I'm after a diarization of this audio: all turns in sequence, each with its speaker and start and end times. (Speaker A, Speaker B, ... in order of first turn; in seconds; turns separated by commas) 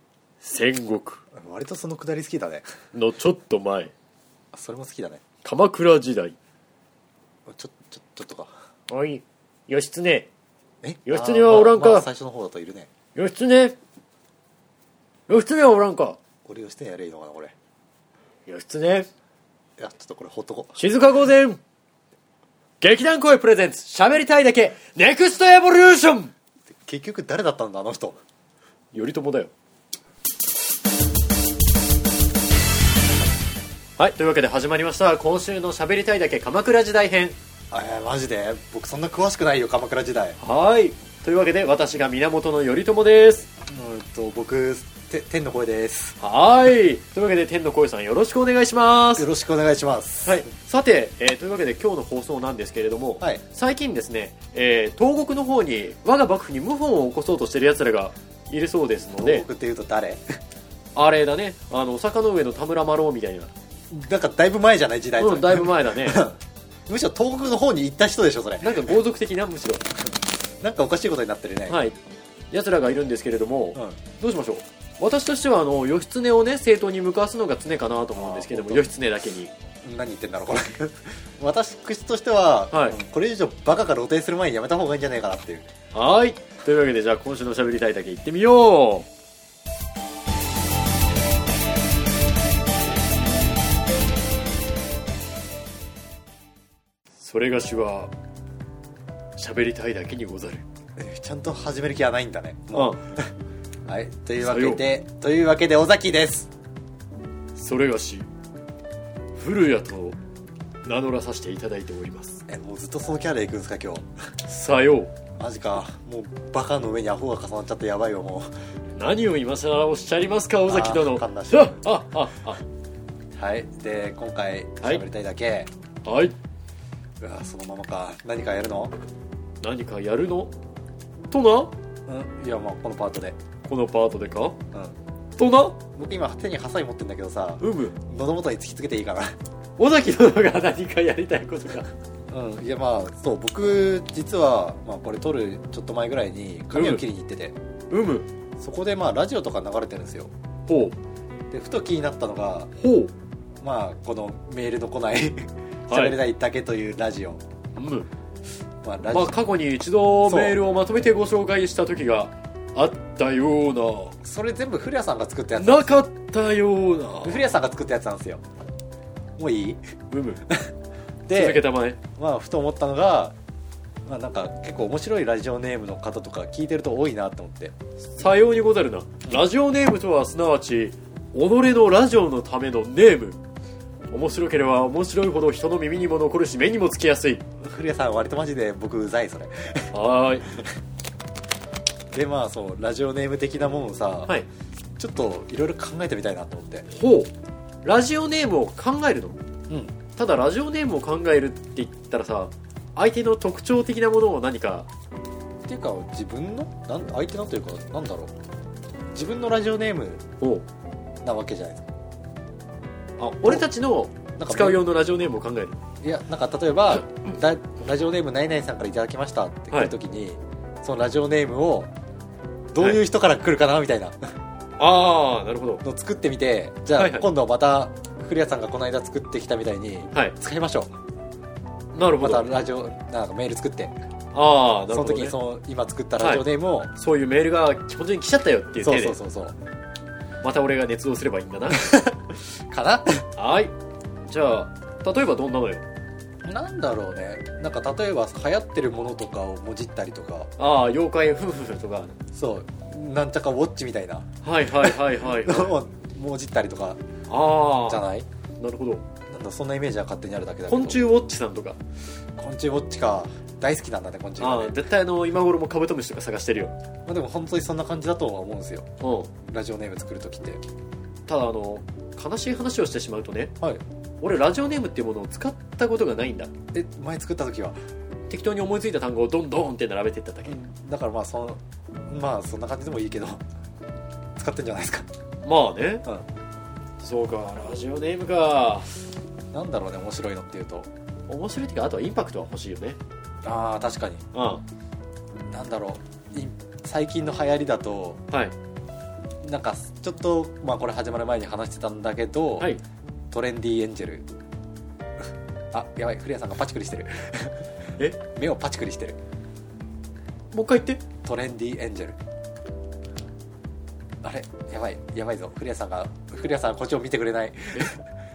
Speaker A: 0.4-1.2, Speaker B: 1.3-2.7, Speaker A: 2.9-3.9, Speaker B: 4.5-5.2, Speaker A: 5.4-6.3, Speaker B: 7.5-8.5, Speaker A: 8.9-10.3, Speaker B: 10.8-12.9, Speaker A: 11.1-12.1, Speaker A: 13.2-13.8, Speaker A: 15.3-16.2, Speaker B: 16.4-17.5, Speaker A: 18.5-19.1, Speaker B: 19.8-20.8, Speaker A: 20.8-21.6, Speaker A: 22.8-26.3, Speaker B: 26.8-28.2, Speaker A: 28.9-29.5, Speaker A: 34.0-37.4, Speaker B: 37.7-40.4, Speaker A: 40.4-43.5, Speaker B: 43.7-46.2, Speaker A: 46.2-49.3, Speaker B: 49.2-50.5, Speaker A: 50.3-59.5, Speaker B: 59.2-60.2, Speaker A: 61.0-63.5, Speaker B: 63.9-69.0, Speaker A: 65.2-66.3, Speaker A: 68.6-69.9, Speaker B: 70.6-71.8, Speaker A: 71.7-72.0, Speaker A: 72.5-79.5, Speaker B: 78.2-78.9, Speaker B: 79.8-85.7, Speaker A: 82.7-83.0, Speaker A: 85.9-89.1, Speaker A: 97.2-98.1, Speaker A: 99.4-100.6, Speaker B: 101.0-103.3, Speaker A: 102.7-103.0, Speaker B: 103.9-106.5, Speaker A: 104.4-104.8, Speaker A: 107.6-108.3, Speaker A: 109.4-110.2, Speaker A: 110.8-112.4, Speaker B: 112.5-114.1, Speaker A: 114.4-115.1, Speaker B: 115.4-118.5, Speaker A: 119.0-122.6, Speaker B: 120.7-121.8, Speaker B: 123.4-125.7, Speaker A: 126.0-126.3, Speaker B: 127.2-128.9, Speaker A: 129.6-130.5, Speaker A: 131.3-131.7, Speaker B: 132.1-133.4, Speaker A: 133.6-134.6, Speaker A: 135.4-135.8, Speaker B: 135.9-139.3, Speaker A: 137.6-137.9, Speaker A: 139.8-141.9, Speaker B: 142.3-147.6, Speaker A: 146.7-147.0, Speaker A: 147.9-148.3, Speaker B: 148.6-150.3, Speaker A: 150.7-151.0, Speaker B: 151.5-152.7, Speaker A: 152.8-153.1, Speaker B: 153.6-157.4, Speaker A: 155.9-156.2, Speaker A: 157.8-158.1, Speaker B: 158.8-159.4, Speaker A: 159.1-164.2, Speaker B: 160.3-160.6, Speaker B: 164.2-166.0, Speaker A: 165.6-167.5, Speaker B: 167.2-168.4, Speaker B: 169.4-169.8, Speaker A: 170.1-170.4, Speaker B: 171.3-171.7, Speaker A: 171.3-172.0, Speaker B: 172.2-173.3, Speaker B: 174.1-177.7, Speaker A: 178.2-183.4, Speaker A: 184.1-187.4, Speaker B: 187.6-189.9, Speaker A: 189.9-190.5, Speaker B: 192.1-194.3, Speaker B: 195.0-196.9, Speaker A: 196.9-197.3, Speaker A: 197.8-199.4, Speaker B: 199.7-199.9, Speaker A: 200.2-204.9, Speaker B: 205.7-208.3, Speaker B: 209.1-210.2, Speaker B: 211.2-211.8, Speaker A: 213.2-215.8, Speaker B: 214.4-214.8, Speaker B: 216.0-221.9, Speaker B: 222.7-224.2, Speaker A: 224.8-225.8, Speaker B: 225.8-230.9, Speaker A: 227.0-227.3, Speaker A: 231.9-232.5, Speaker B: 232.2-233.9, Speaker A: 234.3-235.3, Speaker B: 234.9-236.9, Speaker A: 236.2-239.2, Speaker B: 238.8-239.6, Speaker A: 240.4-241.9, Speaker B: 241.8-242.2, Speaker B: 242.7-243.3, Speaker A: 243.4-243.7, Speaker A: 244.3-245.8, Speaker B: 246.4-250.5, Speaker A: 250.6-252.2, Speaker B: 252.3-257.0, Speaker A: 254.4-255.8, Speaker A: 257.3-258.0, Speaker B: 257.9-258.3, Speaker A: 258.6-259.0, Speaker B: 259.3-261.1, Speaker A: 260.7-261.8, Speaker B: 262.4-264.8, Speaker A: 264.4-266.7, Speaker B: 267.1-268.9, Speaker A: 269.0-269.3, Speaker B: 269.4-270.6, Speaker A: 271.3-273.5, Speaker A: 274.2-276.5, Speaker B: 276.7-277.8, Speaker A: 278.3-280.6, Speaker B: 280.5-283.4, Speaker B: 284.4-285.1, Speaker A: 285.4-286.1, Speaker A: 287.0-288.9, Speaker B: 289.5-290.9, Speaker A: 291.3-293.0, Speaker B: 293.4-294.2, Speaker A: 294.3-294.6, Speaker B: 295.5-298.2, Speaker B: 299.4-302.7, Speaker B: 303.3-304.2, Speaker B: 305.7-307.6, Speaker B: 308.3-309.2, Speaker A: 310.5-311.0, Speaker B: 311.2-312.2, Speaker B: 314.2-318.0